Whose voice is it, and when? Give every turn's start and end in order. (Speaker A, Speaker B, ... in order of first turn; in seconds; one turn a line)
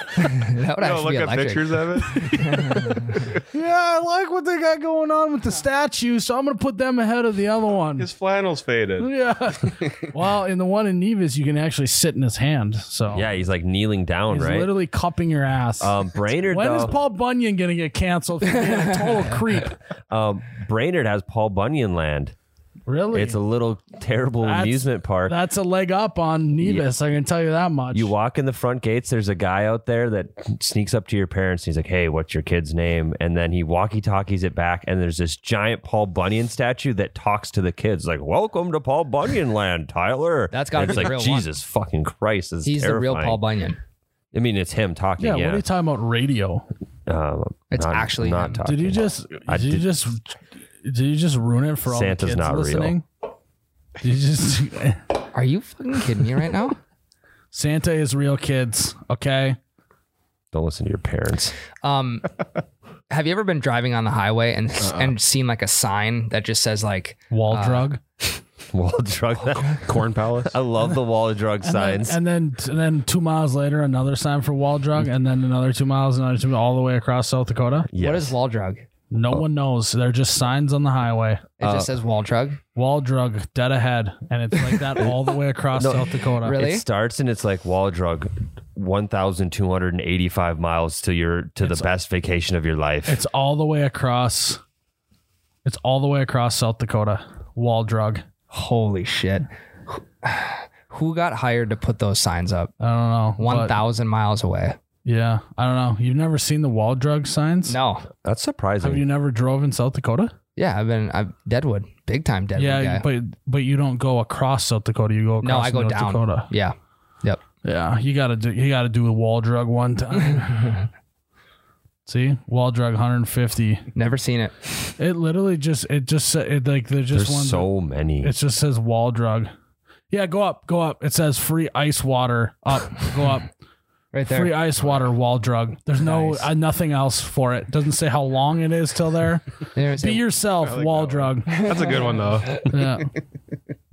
Speaker A: 0.2-3.2
Speaker B: 0.8-3.4
Speaker C: 2.2-2.6
Speaker C: 3.5-8.1
Speaker B: 8.0-9.1
Speaker C: 9.0-13.3
Speaker D: 13.1-14.7
Speaker C: 14.3-19.8
Speaker D: 15.8-16.9
Speaker D: 20.1-22.3
Speaker C: 22.9-23.4
Speaker D: 23.1-25.4
Speaker C: 24.4-28.1
Speaker D: 27.9-43.4
Speaker A: 40.5-41.5
Speaker A: 42.6-43.8
Speaker D: 44.3-45.6
Speaker C: 45.2-46.7
Speaker D: 47.1-49.9
Speaker A: 47.7-48.6
Speaker C: 48.6-53.0
Speaker D: 51.9-52.9
Speaker C: 54.0-55.0
Speaker A: 55.3-56.8
Speaker C: 57.5-59.6
Speaker D: 60.5-61.5
Speaker A: 61.8-62.3
Speaker A: 63.1-67.9
Speaker B: 64.8-65.1
Speaker C: 67.3-68.0
Speaker D: 68.7-69.9
Speaker B: 69.8-70.5
Speaker D: 70.4-72.2
Speaker C: 71.6-77.9
Speaker D: 77.9-78.3
Speaker A: 78.0-78.8
Speaker C: 79.1-81.4
Speaker A: 81.6-82.6
Speaker D: 81.6-81.9
Speaker C: 82.7-86.6
Speaker D: 85.8-93.2
Speaker A: 86.4-86.8
Speaker C: 91.6-91.9
Speaker C: 93.1-94.6
Speaker C: 95.6-98.2
Speaker A: 98.5-102.7
Speaker C: 102.8-103.8
Speaker A: 103.4-104.8
Speaker C: 105.0-107.8
Speaker A: 107.7-108.1
Speaker D: 108.2-109.0
Speaker C: 108.8-110.3
Speaker A: 110.6-113.0
Speaker C: 112.5-116.5
Speaker A: 115.4-117.4
Speaker C: 117.6-120.8
Speaker C: 122.0-123.8
Speaker A: 123.9-124.5
Speaker C: 125.0-127.7
Speaker D: 127.1-128.3
Speaker C: 128.2-129.5
Speaker C: 130.1-133.5
Speaker A: 134.1-134.5
Speaker C: 134.3-141.7
Speaker A: 136.0-136.5
Speaker A: 139.7-140.2
Speaker B: 140.6-142.7
Speaker A: 141.5-142.2
Speaker C: 142.7-143.1